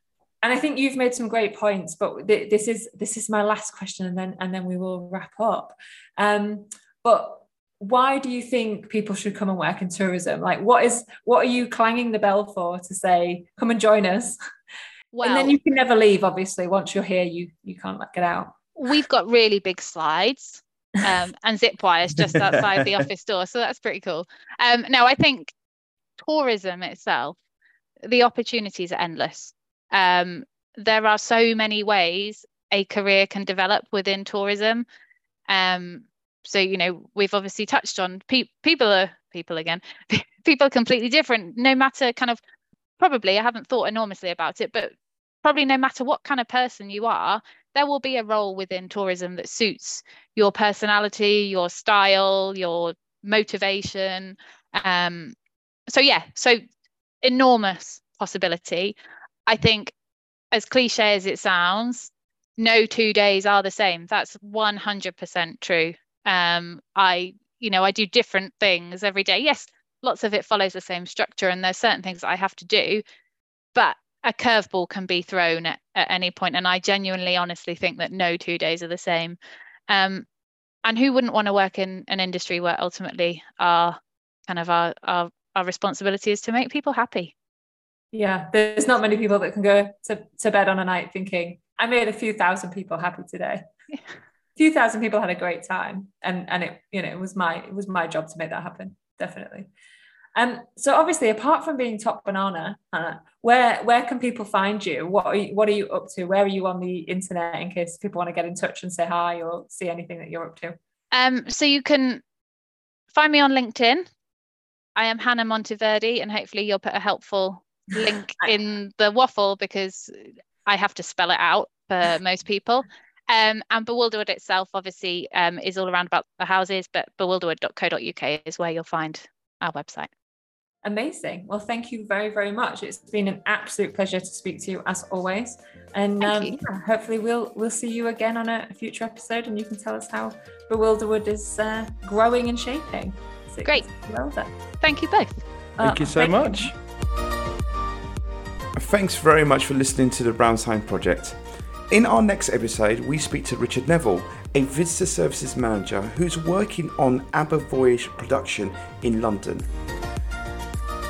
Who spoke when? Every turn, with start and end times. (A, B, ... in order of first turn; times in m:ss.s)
0:00.4-0:14.4 A
0:15.1-0:15.6 B
0:15.2-0:18.6 A
0:18.8-0:25.5 B
0:22.3-0:23.0 C
0:26.2-0:27.4 B
0:28.0-0:34.9 B
0:35.5-0:42.4 B
0:43.0-0:55.3 B
0:55.9-0:56.6 B
0:57.2-0:59.0 B
0:59.5-0:59.9 B
1:00.5-1:13.0 B
1:13.8-1:19.4 B
1:19.9-1:20.3 B
1:20.8-1:27.3 B
1:28.1-1:33.6 A
1:34.6-1:39.7 A
1:40.4-1:50.8 A
1:51.1-1:52.2 B
1:53.1-1:54.0 B
1:55.0-2:10.1 B
2:10.8-2:24.5 A
2:16.2-2:16.6 B
2:24.8-2:25.4 B
2:25.8-2:26.7 A
2:25.8-2:26.8 C
2:28.8-2:31.4 C
2:31.9-2:39.7 C